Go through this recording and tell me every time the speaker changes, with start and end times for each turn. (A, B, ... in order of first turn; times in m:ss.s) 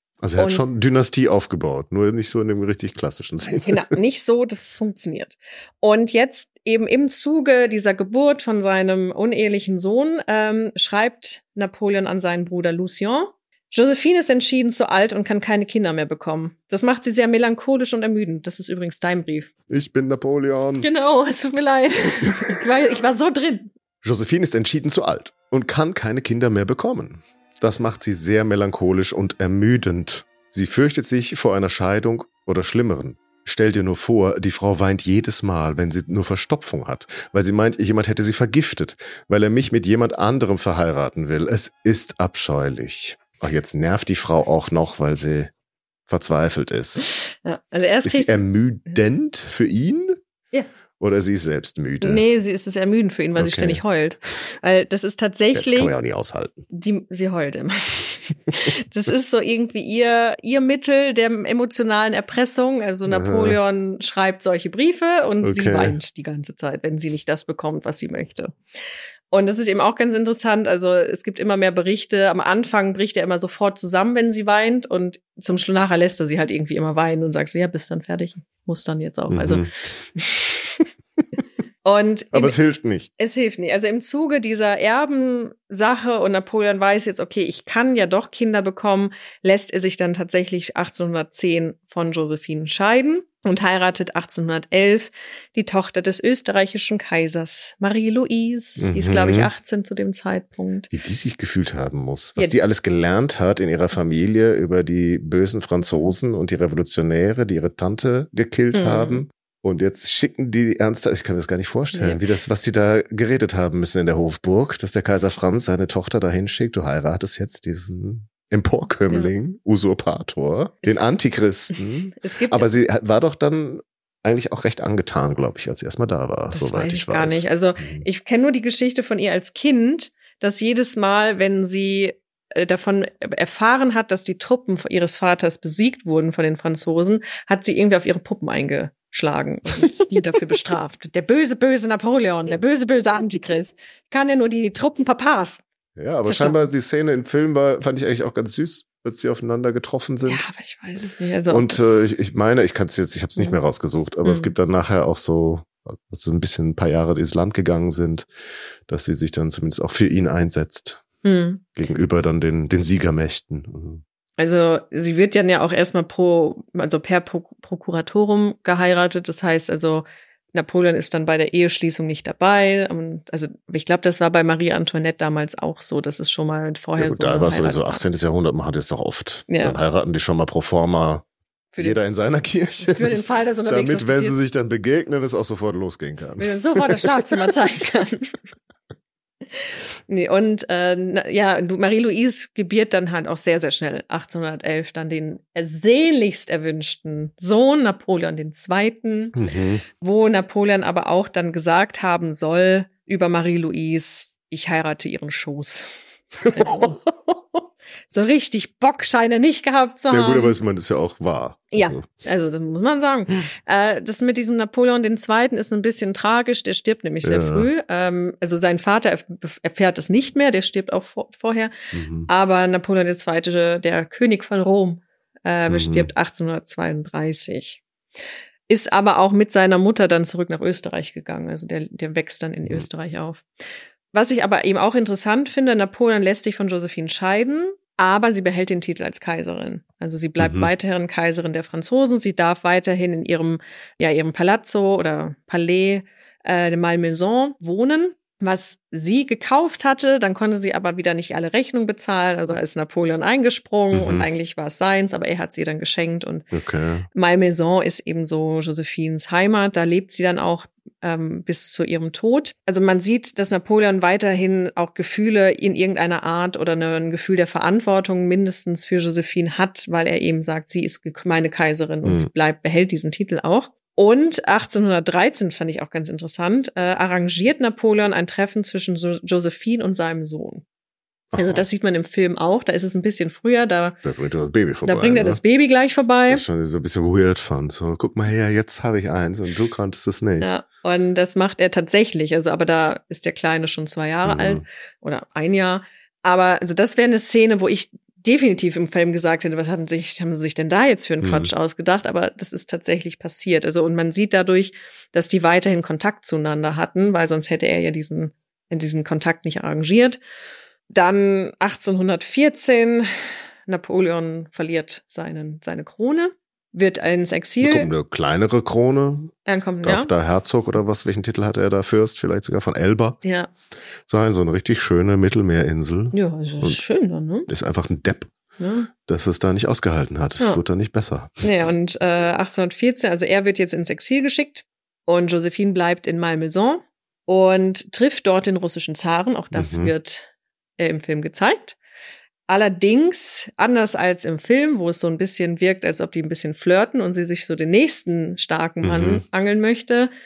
0:00.2-0:03.9 A
0:00.4-0:00.6 B
0:03.6-0:19.5 B
0:19.7-0:20.9 A
0:20.8-0:23.7 B
0:22.3-0:22.6 A
0:24.0-0:45.5 A
0:46.1-0:47.1 A
0:47.3-0:48.3 B
0:48.0-0:50.2 A
0:51.0-0:52.2 A
0:52.0-0:55.9 B
0:53.4-0:53.8 A
0:55.5-0:56.6 A
0:56.7-1:08.6 B
1:03.1-1:03.6 A
1:05.4-1:06.0 A
1:09.3-1:20.9 B
1:19.3-1:19.7 A
1:21.8-1:22.6 B
1:22.3-1:23.1 A
1:23.2-1:40.9 B
1:38.8-1:39.5 A
1:40.9-2:08.0 A
1:48.7-1:49.2 B
1:51.9-1:52.2 B
2:02.2-2:02.7 B
2:06.5-2:25.6 B
2:26.0-2:30.4 A
2:26.2-2:26.6 B
2:30.3-2:32.0 B
2:31.5-2:38.3 A
2:34.2-2:34.5 B
2:38.9-2:41.0 A
2:41.2-2:41.6 B
2:41.8-2:44.0 A
2:44.4-2:57.9 B
2:57.0-3:01.2 A
2:59.5-2:59.8 B
3:01.8-3:07.5 A
3:02.8-3:04.4 B
3:06.4-3:08.2 B
3:09.5-3:19.4 B
3:19.4-3:19.8 A
3:20.0-3:25.9 B
3:26.4-3:27.4 A
3:26.5-3:27.0 B
3:28.1-3:30.5 B
3:30.1-3:32.2 A
3:31.7-3:41.7 B
3:37.2-3:37.7 A
3:41.9-3:42.3 A
3:42.3-3:47.8 B
3:45.7-3:46.1 A
3:48.7-3:53.4 B
3:54.1-4:16.5 B
4:00.4-4:00.7 A
4:13.9-4:14.3 A
4:16.5-4:17.1 A
4:17.1-4:40.6 B
4:32.0-4:32.3 A
4:41.3-4:41.6 A
4:41.4-4:44.0 B
4:44.0-4:45.4 A
4:44.9-4:46.4 B
4:46.3-4:50.5 A
4:50.4-5:10.2 B
4:54.2-4:54.6 A
5:01.2-5:01.5 A
5:10.9-5:17.9 B
5:17.6-5:23.2 A
5:19.5-5:20.1 B
5:23.2-5:23.5 B
5:24.1-5:26.8 A
5:26.1-5:27.5 B
5:27.5-5:28.3 A
5:28.6-5:28.9 B
5:29.0-5:31.4 A
5:31.4-5:41.8 B
5:39.5-5:39.9 A
5:42.5-5:50.1 B
5:48.8-5:49.2 A